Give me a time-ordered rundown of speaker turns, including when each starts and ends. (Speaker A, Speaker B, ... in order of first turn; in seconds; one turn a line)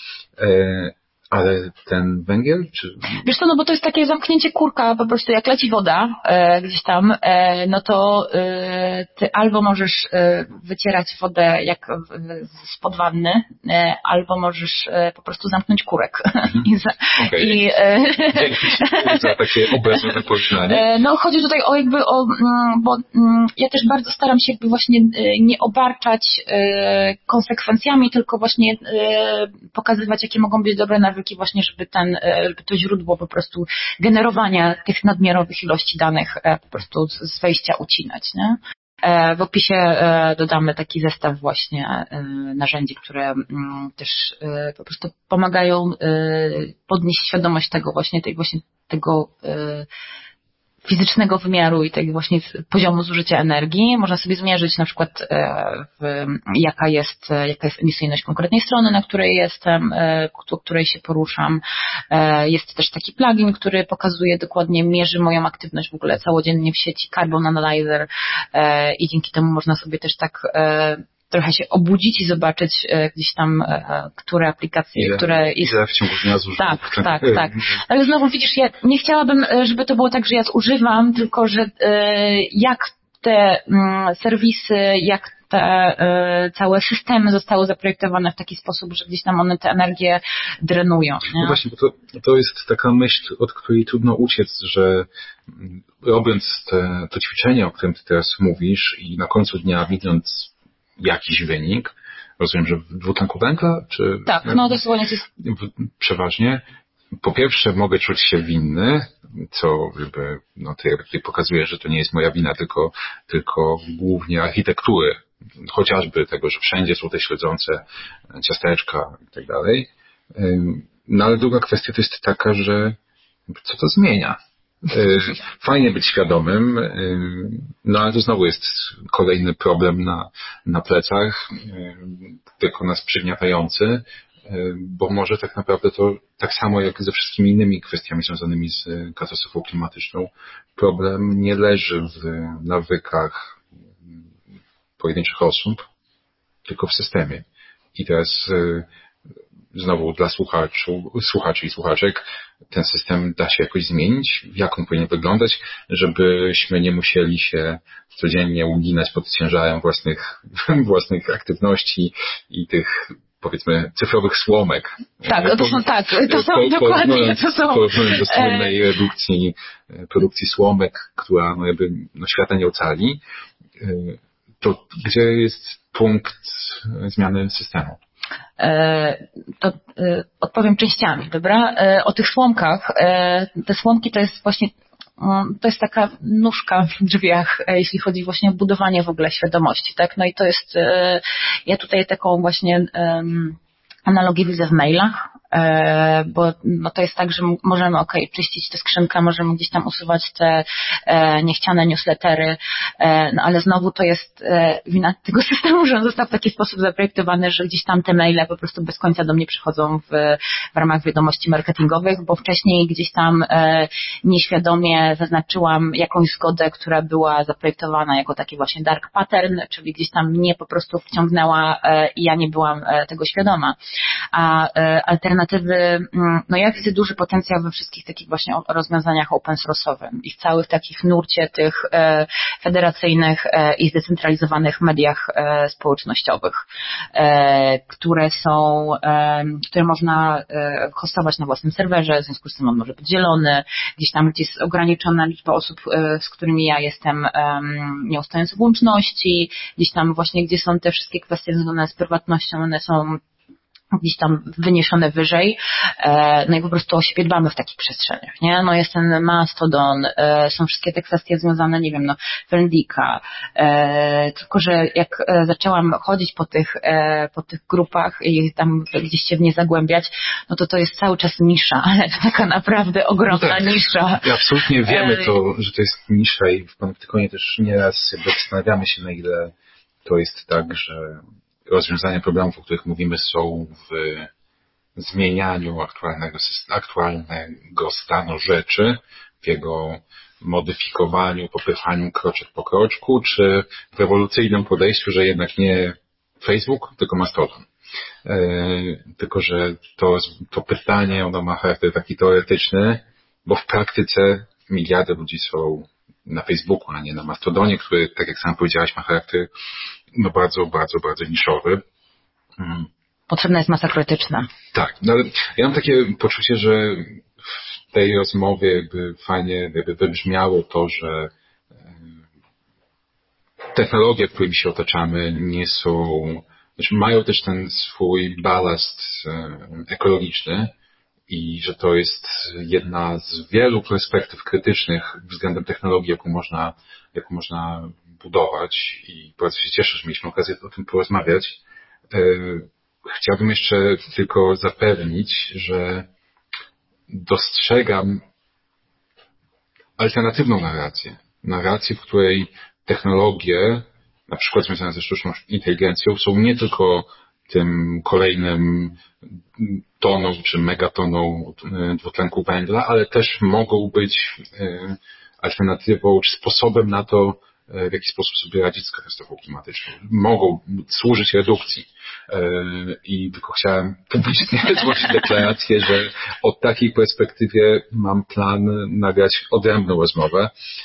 Speaker A: 0.4-3.2
Speaker B: 3.2-49.9
Speaker A: 16.4-17.6
Speaker A: 18.3-20.9
Speaker B: 50.8-75.8
Speaker A: 75.0-77.8
Speaker B: 76.5-91.6
Speaker A: 91.3-104.8
Speaker B: 104.3-105.3
Speaker A: 105.4-106.6
Speaker A: 107.2-123.0
Speaker A: 123.5-144.2
Speaker A: 145.0-145.8
Speaker A: 146.7-148.9
Speaker A: 149.7-173.2
Speaker B: 165.2-168.8
Speaker A: 173.8-178.0
Speaker B: 178.6-223.8
Speaker B: 224.3-253.2
Speaker B: 253.9-275.4
Speaker A: 273.3-279.5
Speaker A: 280.0-284.3
Speaker A: 284.9-297.7
Speaker A: 298.2-309.5
Speaker A: 310.1-311.8
Speaker A: 312.6-312.9
Speaker B: 313.3-314.5
Speaker A: 314.7-321.3
Speaker A: 321.9-322.1
Speaker A: 323.7-330.7
Speaker A: 331.3-346.1
Speaker A: 347.1-348.2
Speaker A: 350.0-380.5